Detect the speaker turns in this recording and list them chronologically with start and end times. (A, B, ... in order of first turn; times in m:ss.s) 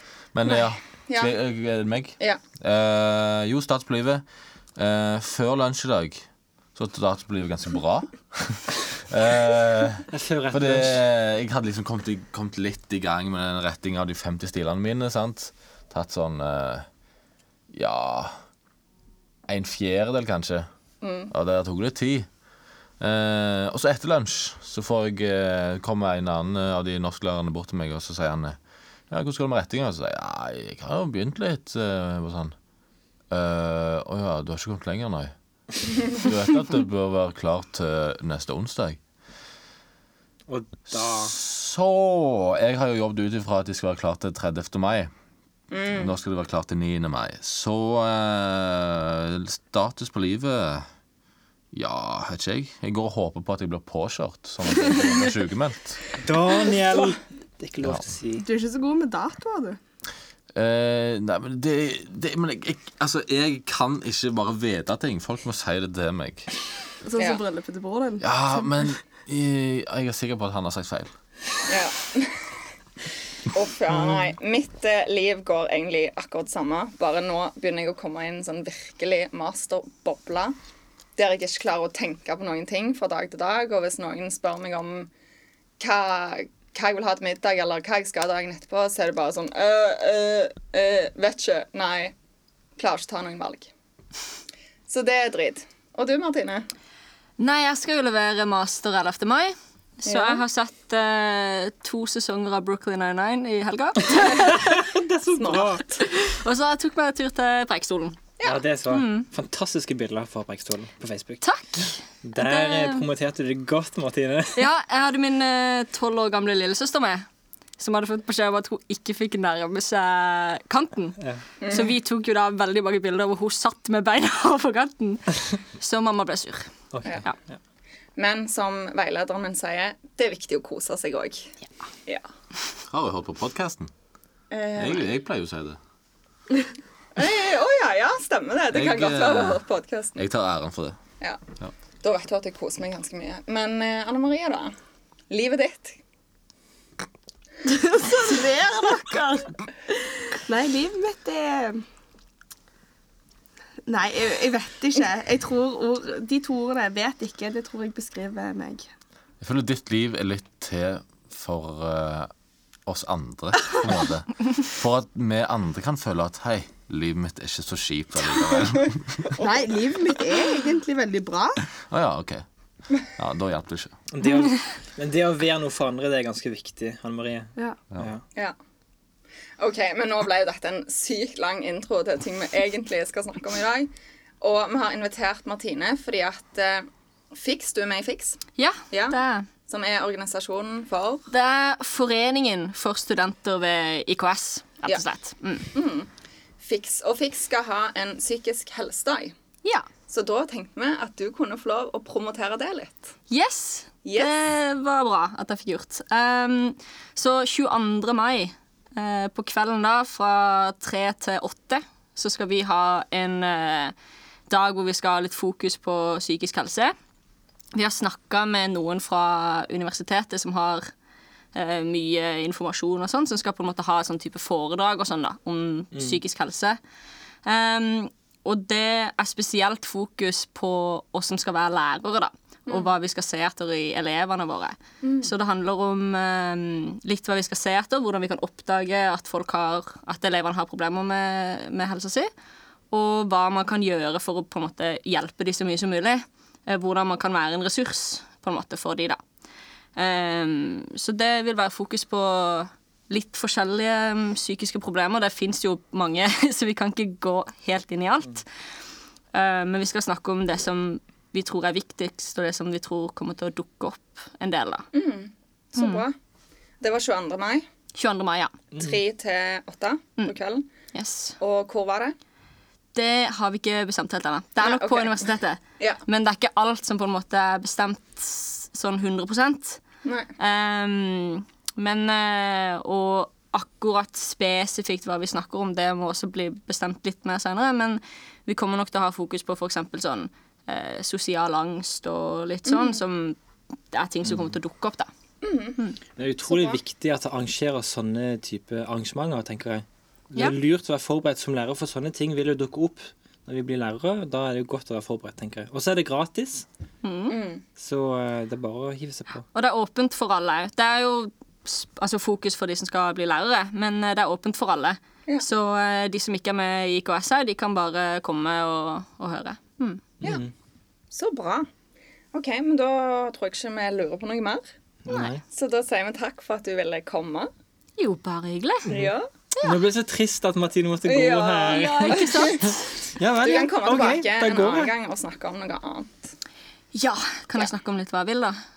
0:00.3-0:04.2 A
0:00.5-0:01.3 B
0:04.8-0:16.9 A
0:10.1-0:11.0 C
0:17.7-0:18.4 A
0:19.5-0:20.7 A
0:21.0-0:21.3 B
0:21.3-0:22.3 A
0:23.0-0:28.6 A
0:29.1-0:32.6 A
0:33.3-0:35.3 A
0:36.0-0:39.0 A
0:40.5-0:41.4 C
0:40.9-0:45.1 A
0:45.7-0:46.1 B
0:45.9-0:50.9 A
0:51.7-0:56.0 A
0:54.7-0:55.2 D
0:56.1-0:58.5 C
0:58.4-0:59.8 D
1:00.6-1:06.5 A
1:07.0-1:08.7 D
1:08.2-1:11.1 A
1:11.7-1:12.4 B
1:13.5-1:20.6 B
1:21.2-1:25.1 B
1:25.8-1:32.1 B
1:32.8-1:33.7 B
1:34.9-1:36.7 B
1:37.4-1:44.8 E
1:40.1-1:40.4 B
1:44.2-1:45.8 C
1:45.3-1:46.0 B
1:46.0-1:48.2 E
1:48.4-1:51.4 C
1:48.9-1:49.3 E
1:51.4-1:53.0 E
1:52.2-1:54.7 C
1:54.6-1:57.3 E
1:57.8-2:06.7 E
2:01.6-2:01.9 B
2:06.9-2:07.6 C
2:08.2-2:11.5 B
2:12.9-2:13.9 A
2:14.5-2:15.1 B
2:14.8-2:15.8 A
2:17.2-2:20.2 B
2:18.7-2:19.6 A
2:20.2-2:21.0 A
2:22.0-2:24.8 B
2:25.3-2:26.0 B
2:27.6-2:29.5 D
2:30.3-2:31.8 D
2:33.9-2:38.9 D
2:39.4-2:42.3 A
2:42.9-2:49.4 A
2:49.4-2:51.6 D
2:51.9-2:52.4 A
2:53.0-2:54.0 A
2:54.1-2:58.2 C
2:59.6-3:03.9 B
3:04.4-3:08.4 B
3:08.6-3:09.5 E
3:08.9-3:11.3 B
3:11.3-3:15.7 E
3:15.7-3:16.1 B
3:16.6-3:19.4 B
3:20.1-3:23.1 B
3:23.3-3:33.9 E
3:24.0-3:24.3 B
3:34.5-3:36.9 E
3:37.8-3:40.9 E
3:41.6-3:46.8 E
3:45.9-3:46.2 C
3:47.4-4:02.3 E
3:55.0-3:55.3 B
4:02.9-4:09.2 E
4:10.0-4:18.4 E
4:19.3-4:24.9 E
4:24.9-4:26.2 B
4:25.8-4:26.0 E
4:26.8-4:27.7 B
4:28.0-4:28.5 E
4:28.7-4:29.0 C
4:28.8-4:30.7 B
4:30.9-4:31.4 E
4:31.4-4:32.2 B
4:32.9-4:39.8 E
4:34.6-4:35.2 B
4:40.0-4:40.3 B
4:40.4-4:53.4 E
4:52.7-4:53.0 B
4:53.9-4:55.1 E
4:55.4-4:55.8 B
4:56.2-5:06.7 C
4:56.5-4:56.8 B
5:07.0-5:07.4 E
5:07.3-5:07.6 B
5:07.8-5:09.4 C
5:09.5-5:20.0 E
5:20.2-5:20.5 C
5:21.1-5:21.7 B
5:22.3-5:24.6 B
5:25.1-5:25.4 C
5:25.5-5:27.5 B
5:28.0-5:29.0 E
5:28.9-5:29.3 B
5:28.9-5:34.9 C
5:31.0-5:32.8 B
5:31.7-5:33.0 E
5:33.4-5:36.3 B
5:36.9-5:38.6 E